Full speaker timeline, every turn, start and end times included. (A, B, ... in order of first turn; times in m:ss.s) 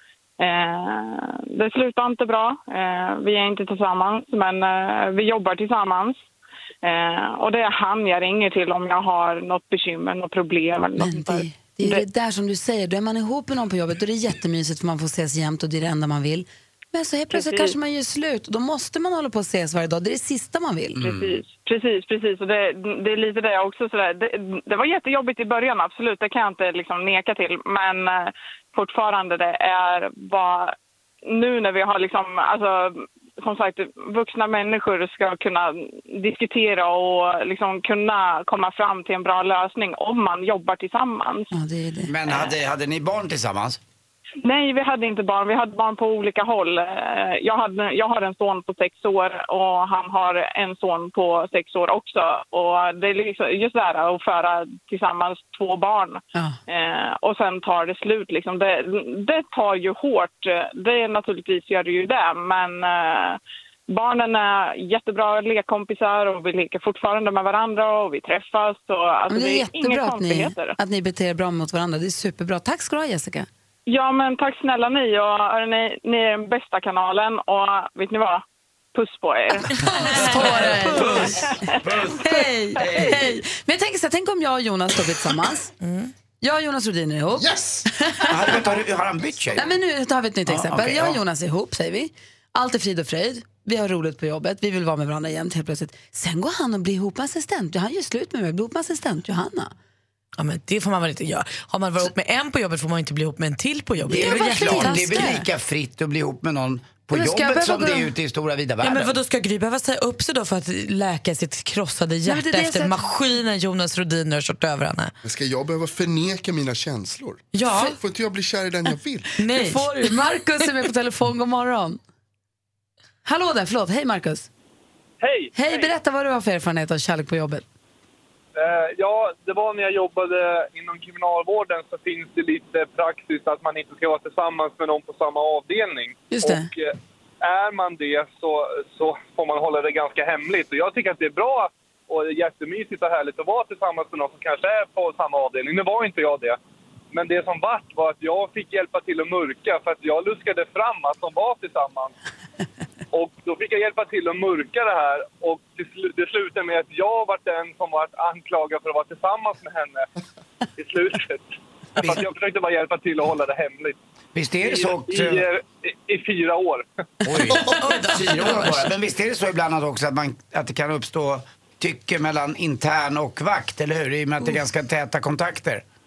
0:00.4-0:06.2 A
0:06.8-0:12.0 A
0:11.0-0:21.0 B
0:17.3-0:17.8 A
0:21.0-0:21.4 C
0:21.0-0:30.8 A
0:31.3-0:41.5 A
0:41.5-0:42.1 B
0:42.1-0:43.8 C
0:44.4-1:10.8 A
1:09.3-1:13.5 B
1:13.9-1:20.2 A
1:19.8-1:21.5 D
1:19.9-1:25.7 B
1:20.2-1:23.2 C
1:25.8-1:26.1 D
1:26.4-1:28.6 B
1:27.4-1:27.9 E
1:28.3-1:29.7 C
1:29.6-1:39.7 B
1:30.5-1:31.2 C
1:40.4-1:45.4 D
1:44.1-1:49.2 C
1:44.1-1:45.5 B
1:47.1-1:48.1 B
1:48.8-1:55.1 D
1:52.3-1:53.0 B
1:55.2-1:59.3 E
1:57.5-1:58.0 D
1:59.4-2:00.6 D
1:59.5-2:02.0 B
2:03.2-2:04.5 B
2:05.2-2:05.9 F
2:05.6-2:07.6 B
2:08.6-2:26.6 F
2:16.3-2:16.7 B
2:27.1-2:32.1 F
2:33.1-2:40.1 F
2:40.8-2:41.5 F
2:42.0-2:44.0 F
2:44.4-2:45.4 C
2:44.6-2:46.9 F
2:47.2-2:55.8 C
2:47.6-2:48.9 D